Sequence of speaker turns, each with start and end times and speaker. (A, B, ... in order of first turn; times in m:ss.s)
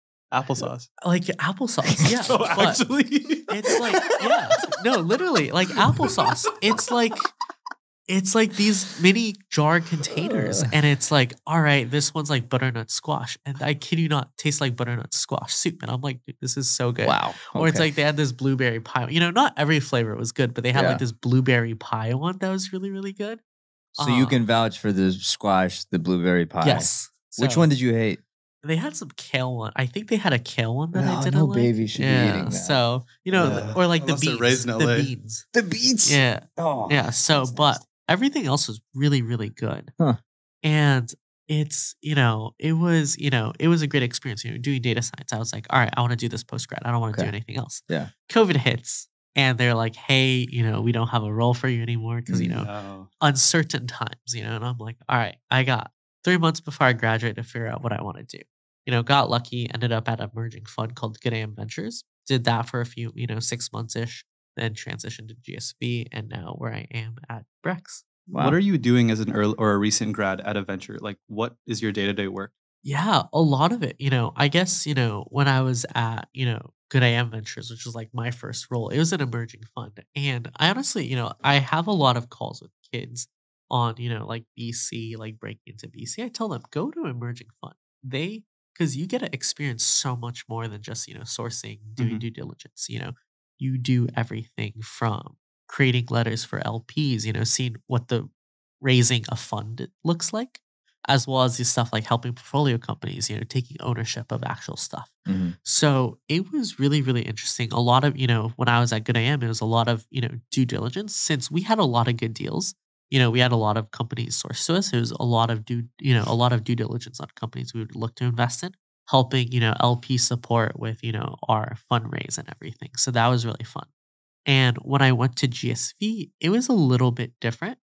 0:00.3-0:00.9 A
0:01.0-0:02.8 B
0:02.3-0:04.4 A
0:03.5-0:07.3 B
0:08.1-0:23.4 B
0:10.2-0:10.7 C
0:17.0-0:17.9 C
0:20.7-0:21.0 C
0:24.0-0:28.2 C
0:24.0-0:24.4 B
0:26.6-0:27.7 B
0:28.6-0:35.5 B
0:30.9-0:33.8 C
0:33.4-0:35.1 A
0:35.5-0:37.8 C
0:36.0-0:39.9 B
0:40.6-1:08.0 B
0:52.3-0:52.6 C
0:52.6-0:53.1 A
1:08.3-1:08.6 C
1:08.4-1:12.5 A
1:12.8-1:38.3 B
1:32.0-1:32.2 A
1:38.8-2:03.9 B
1:45.2-1:45.6 C
2:04.4-2:07.8 B